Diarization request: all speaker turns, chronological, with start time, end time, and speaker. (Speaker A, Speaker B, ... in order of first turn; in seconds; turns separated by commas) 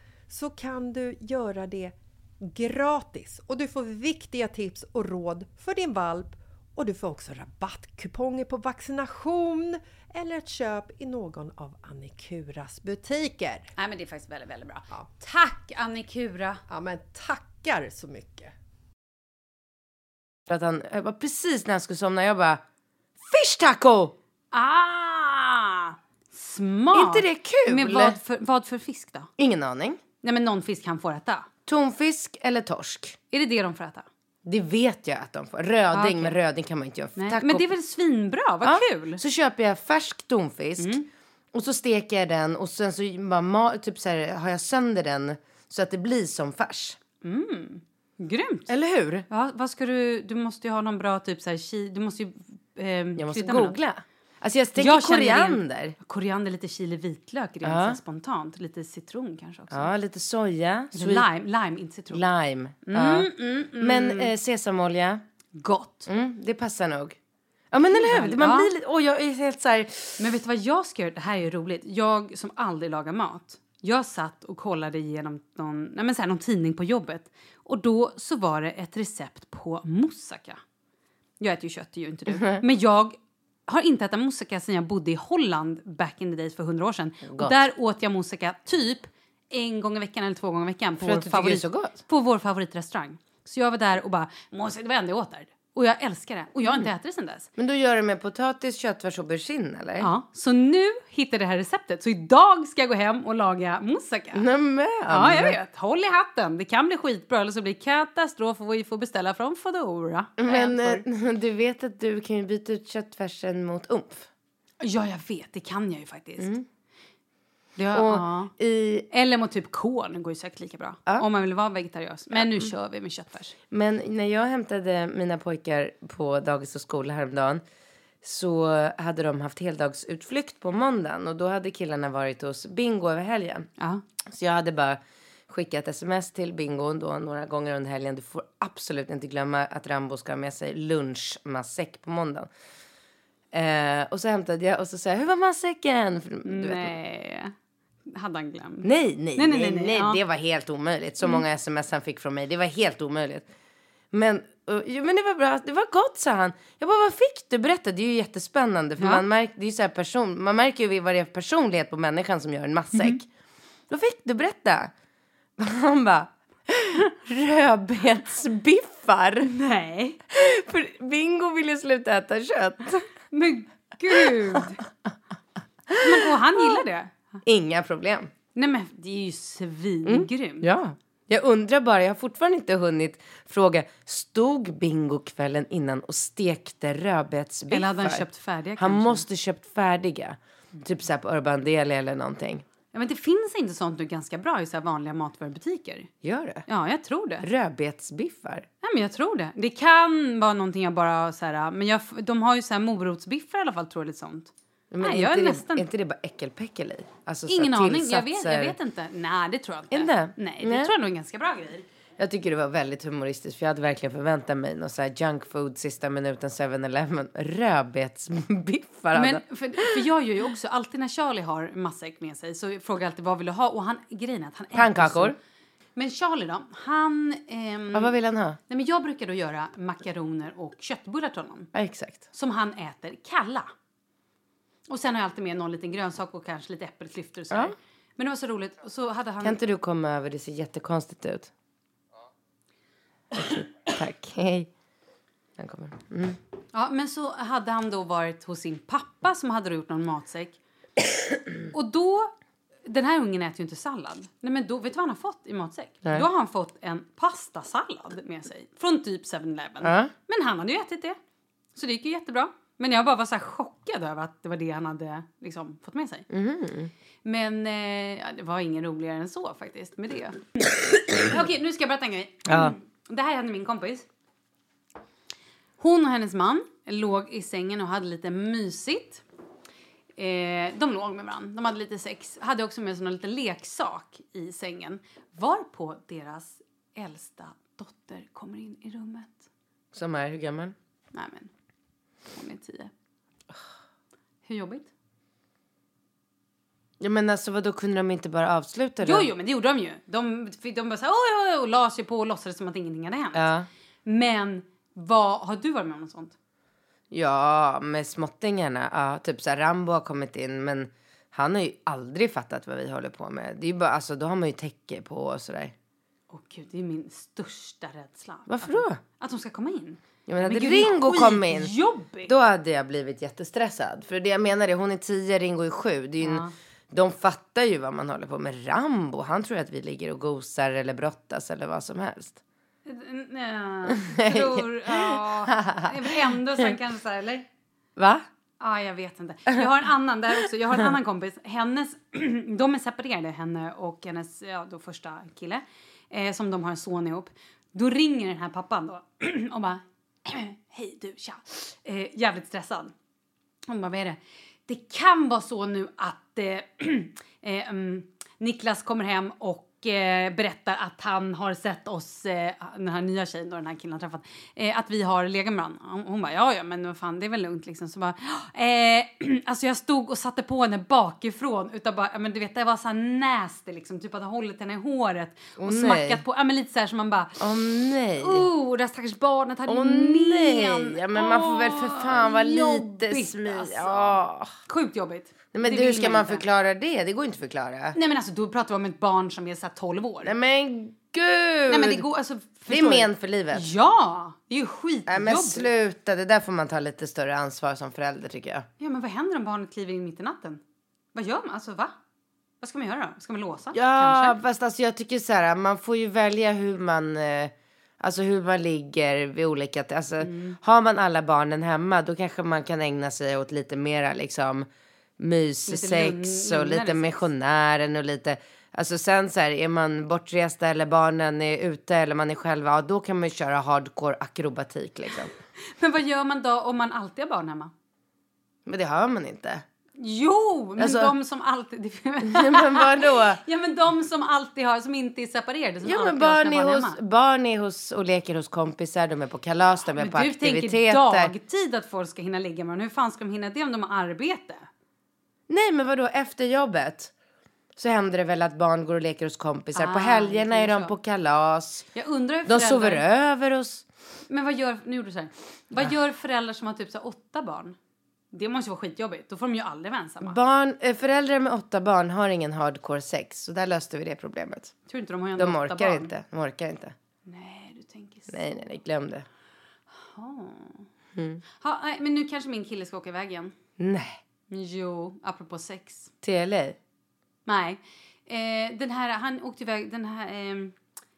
Speaker A: 0.3-13.7, Speaker B: 13.8-16.6, Speaker A: 16.7-18.5, Speaker C: 20.5-22.6, Speaker C: 23.2-24.1, Speaker B: 24.5-29.3, Speaker C: 26.9-28.2, Speaker C: 29.4-30.0, Speaker B: 30.2-31.5, Speaker C: 31.6-33.2, Speaker B: 33.3-34.1, Speaker C: 34.4-37.7, Speaker B: 35.9-36.4, Speaker B: 37.1-39.2, Speaker C: 38.6-41.0, Speaker B: 40.8-41.1, Speaker C: 41.5-47.0, Speaker B: 47.2-48.7, Speaker C: 48.7-49.3, Speaker B: 49.3-53.8, Speaker C: 53.2-56.0, Speaker B: 54.8-59.9, Speaker C: 57.6-58.0, Speaker C: 59.7-61.3, Speaker B: 60.9-62.3, Speaker C: 62.1-65.2, Speaker B: 62.8-64.3, Speaker B: 65.5-66.1, Speaker C: 66.1-67.2, Speaker C: 67.7-70.2, Speaker B: 67.8-68.7, Speaker B: 70.2-80.6, Speaker B: 81.4-97.5, Speaker C: 82.3-82.6, Speaker C: 87.2-87.6, Speaker C: 91.0-92.0, Speaker C: 97.6-100.1, Speaker B: 100.0-104.4, Speaker C: 104.3-105.6, Speaker B: 105.1-111.0, Speaker C: 110.4-114.3, Speaker B: 114.8-116.5, Speaker C: 116.4-116.7, Speaker B: 117.8-118.5, Speaker C: 117.9-119.1, Speaker B: 119.1-123.5, Speaker C: 122.3-122.7, Speaker C: 123.7-127.6, Speaker C: 128.2-133.7, Speaker B: 133.8-134.0, Speaker C: 134.3-142.5, Speaker C: 143.5-146.9, Speaker B: 146.4-147.5, Speaker B: 148.1-150.2, Speaker C: 148.8-153.5, Speaker C: 154.1-163.2, Speaker B: 159.0-159.2, Speaker B: 162.9-163.2, Speaker C: 163.9-164.9, Speaker C: 165.6-169.5, Speaker B: 169.4-170.2, Speaker C: 170.3-173.0, Speaker B: 173.3-174.8, Speaker C: 175.9-176.3, Speaker B: 176.0-177.2, Speaker C: 177.4-178.3, Speaker B: 178.5-180.7, Speaker C: 180.1-188.2, Speaker B: 187.7-189.2, Speaker C: 188.8-192.6, Speaker B: 192.9-196.1, Speaker C: 196.2-196.6, Speaker B: 196.7-197.5, Speaker C: 197.4-198.7, Speaker B: 198.8-204.5, Speaker C: 204.9-208.8, Speaker B: 205.0-205.8, Speaker B: 207.5-211.8, Speaker C: 209.9-210.9, Speaker C: 212.2-220.0, Speaker B: 219.1-225.3, Speaker C: 224.7-225.4, Speaker B: 225.9-228.1, Speaker C: 227.9-228.6, Speaker B: 228.7-231.7, Speaker C: 231.7-232.2, Speaker B: 232.3-233.7, Speaker B: 234.9-239.6, Speaker C: 239.4-241.5, Speaker C: 243.3-244.7, Speaker C: 245.6-246.4, Speaker B: 246.7-250.6, Speaker B: 251.7-252.3, Speaker B: 252.8-261.2, Speaker C: 259.8-260.1, Speaker B: 261.7-266.3, Speaker C: 266.3-266.9, Speaker B: 267.2-274.1, Speaker C: 272.5-272.7, Speaker B: 275.8-279.2, Speaker B: 280.2-289.5, Speaker C: 289.9-290.7, Speaker B: 291.1-291.5, Speaker B: 292.3-292.9, Speaker B: 294.4-294.9, Speaker C: 297.0-299.3, Speaker B: 299.0-303.5, Speaker C: 303.3-303.7, Speaker B: 304.0-306.3, Speaker C: 307.1-315.7, Speaker B: 316.3-322.3, Speaker C: 318.5-319.0, Speaker C: 320.3-332.4, Speaker B: 326.2-326.5, Speaker B: 332.8-337.5, Speaker C: 333.9-336.7, Speaker C: 338.0-338.2, Speaker B: 338.6-352.9, Speaker B: 353.7-377.4, Speaker C: 375.6-376.2, Speaker C: 377.4-378.5, Speaker B: 378.2-386.4, Speaker C: 379.7-384.5, Speaker C: 385.5-388.0, Speaker B: 387.9-390.3, Speaker C: 390.2-392.0, Speaker B: 391.7-395.7, Speaker C: 392.7-393.7, Speaker C: 395.1-398.7, Speaker B: 398.8-400.6, Speaker B: 401.1-401.9, Speaker B: 402.6-404.4, Speaker C: 403.7-414.7, Speaker B: 410.2-410.6, Speaker C: 415.2-425.3, Speaker B: 415.6-417.2, Speaker B: 425.7-427.7, Speaker C: 428.6-429.6, Speaker B: 430.0-437.0, Speaker C: 430.8-431.1, Speaker C: 432.2-433.4, Speaker C: 435.8-441.3, Speaker B: 439.8-444.7, Speaker C: 445.5-447.1, Speaker C: 447.8-451.9, Speaker B: 449.7-450.9, Speaker B: 451.9-453.0, Speaker C: 452.4-453.8, Speaker B: 454.3-457.8, Speaker B: 458.3-460.4, Speaker C: 460.2-464.7, Speaker B: 464.9-466.1, Speaker C: 465.4-466.9, Speaker B: 467.2-468.7, Speaker C: 468.3-469.2, Speaker B: 469.9-470.9, Speaker C: 471.1-471.4, Speaker B: 471.6-473.5, Speaker C: 473.8-474.2, Speaker B: 474.5-476.1, Speaker C: 476.2-476.8, Speaker B: 477.4-480.7